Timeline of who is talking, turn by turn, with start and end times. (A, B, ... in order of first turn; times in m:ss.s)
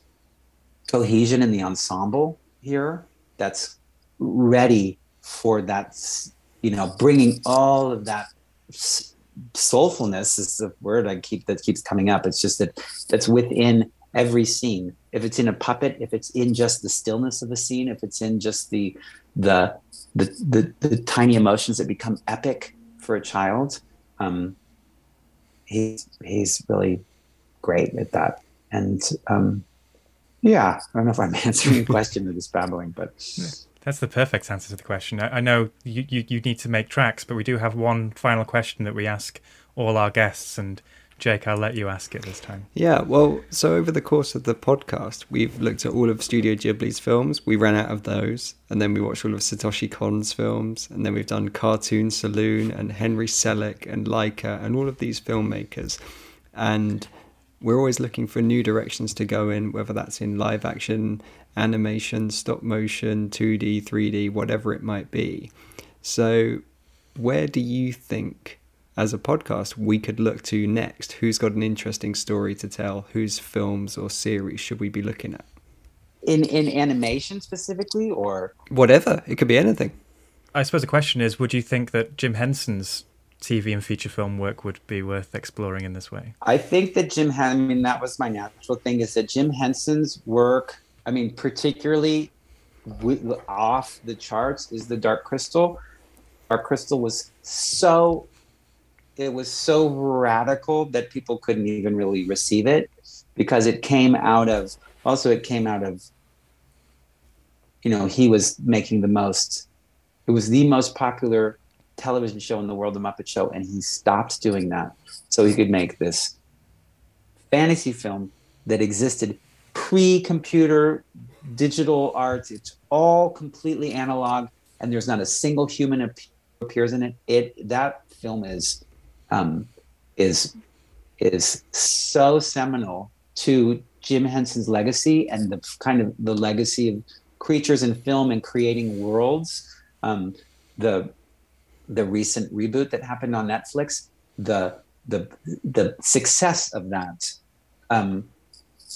0:00.9-0:24.6 A
0:25.7-0:27.0 A
0:27.6-0:29.6 A
0:30.4-0:33.3 A
0:33.4-0:42.7 B
0:42.7-0:56.0 C
0:56.5-1:06.6 C
1:07.1-1:15.5 C
1:16.2-1:18.6 A
1:18.7-1:20.0 C
1:20.5-1:26.3 B
1:26.4-1:32.3 A
1:32.9-1:35.8 A
1:36.5-1:38.3 A
1:39.2-1:46.0 A
1:47.8-1:49.6 A
1:50.3-1:56.3 A
1:57.5-2:10.5 A
2:11.2-2:21.1 A
2:21.9-2:27.3 A
2:27.9-2:28.3 A